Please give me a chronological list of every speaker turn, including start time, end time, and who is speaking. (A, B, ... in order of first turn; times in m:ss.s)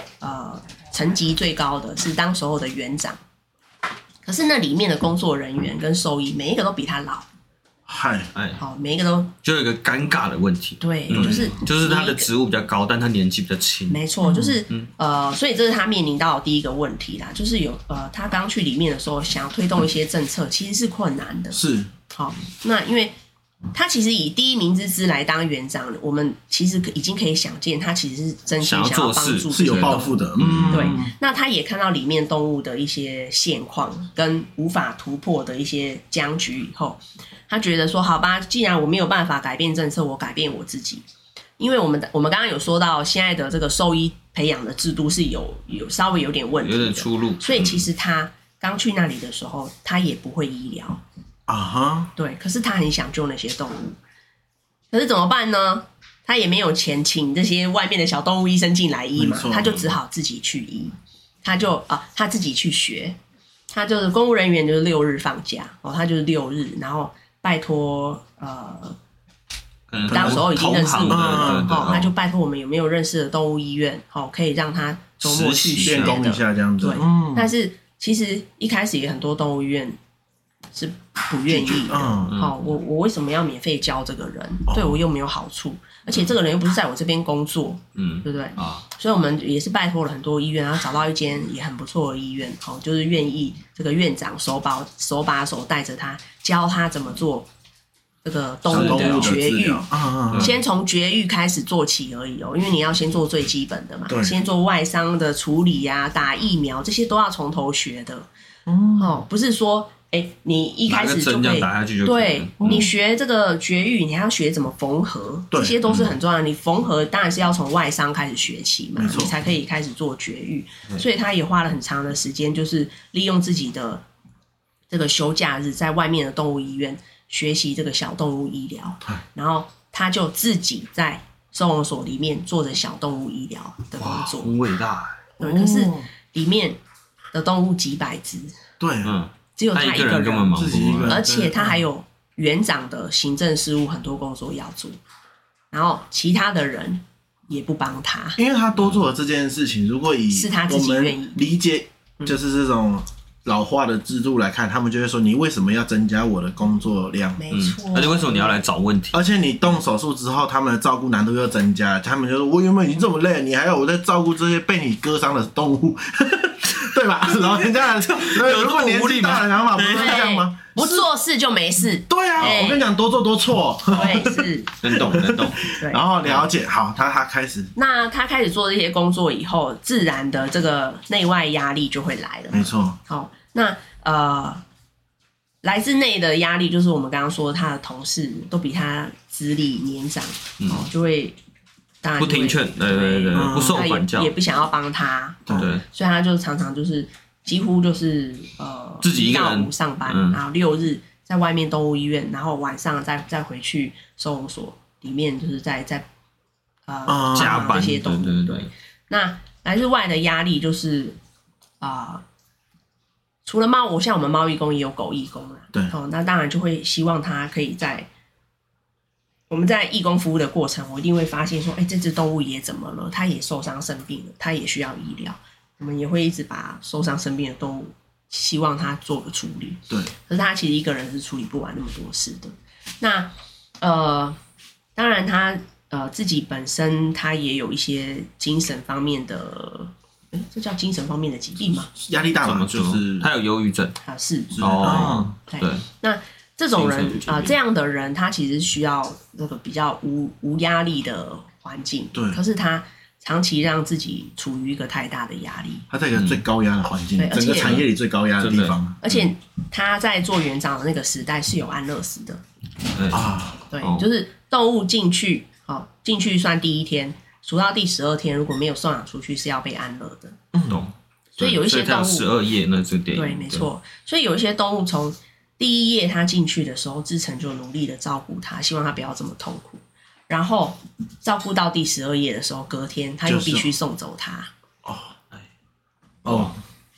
0:00.2-0:03.2 A
0:04.2-0:07.3 A
0:07.9-0:08.3 B
0:08.3-0:08.6 C
0:08.6-0:09.3 A
0:09.4-0:14.0 C
0:10.8-0:12.3 A
0:11.1-0:11.5 B
0:13.9-0:21.6 A
0:14.2-0:14.6 B
0:21.5-0:21.9 B
0:22.1-0:23.1 A
0:23.7-0:30.2 A
0:28.6-0:31.0 C
0:29.5-0:31.1 B
0:30.7-0:41.0 A
0:41.6-0:51.0 A
0:46.6-0:47.8 C
0:51.5-0:52.1 B
0:52.2-0:54.0 A
0:54.9-1:03.2 A
0:59.2-0:59.8 B
1:03.7-1:09.0 A
1:09.9-1:12.1 C
1:10.1-1:10.5 B
1:10.1-1:20.0 A
1:11.1-1:11.8 B
1:15.2-1:16.3 C
1:15.8-1:17.5 B
1:20.7-1:37.5 A
1:21.5-1:22.4 B
1:22.2-1:22.6 C
1:24.7-1:25.0 B
1:28.0-1:28.8 C
1:38.2-1:48.3 A
1:38.7-1:40.6 B
1:38.7-1:39.4 C
1:40.3-1:40.6 C
1:44.1-1:44.4 B
1:48.7-1:49.2 B
1:49.0-2:04.0 A
1:50.9-1:52.9 C
1:52.6-1:52.9 B
1:55.5-1:55.8 B
1:55.9-1:56.1 C
1:59.0-1:59.3 B
2:04.9-2:14.5 A
2:14.0-2:15.2 C
2:15.4-2:16.8 A
2:15.4-2:16.1 B
2:17.3-2:18.5 A
2:18.8-2:19.1 B
2:19.0-2:21.2 C
2:19.6-2:25.0 A
2:20.5-2:21.8 B
2:25.7-2:28.4 A
2:28.4-2:37.4 B
2:28.8-2:29.0 C
2:30.3-2:31.4 A
2:37.4-2:38.6 A
2:37.5-2:39.2 C
2:39.1-2:51.1 B
2:48.2-2:50.3 C
2:49.9-2:52.9 A
2:52.1-2:57.7 B
2:52.4-2:52.7 C
2:53.9-2:54.7 A
2:54.8-2:55.6 C
2:55.7-2:56.0 A
2:57.8-3:04.6 A
3:02.5-3:03.0 B
3:05.6-3:11.4 A
3:10.6-3:10.9 C
3:12.0-3:26.0 A
3:12.2-3:14.3 C
3:13.3-3:13.8 B
3:15.4-3:15.7 B
3:15.5-3:15.8 C
3:19.0-3:20.4 C
3:26.9-3:31.2 A
3:27.1-3:27.8 B
3:27.3-3:28.7 C
3:31.8-3:32.2 A
3:33.4-3:38.1 A
3:39.5-3:54.4 A
3:55.0-4:01.9 A
4:02.0-4:03.3 B
4:02.4-4:04.0 C
4:04.0-4:15.9 A
4:04.6-4:05.3 B
4:04.6-4:05.8 C
4:06.7-4:07.5 C
4:12.1-4:12.4 B
4:15.9-4:19.0 B
4:16.2-4:16.4 C
4:17.2-4:17.8 A
4:17.6-4:17.8 C
4:18.4-4:18.8 C
4:19.0-4:22.4 A
4:22.9-4:24.0 C
4:23.1-4:23.6 B
4:23.7-4:30.4 A
4:30.5-4:30.8 B
4:30.7-4:33.7 C
4:31.4-4:32.3 A
4:33.1-4:44.5 A
4:43.2-4:43.7 B
4:44.8-4:45.1 B
4:46.2-4:46.6 B
4:46.2-4:46.5 C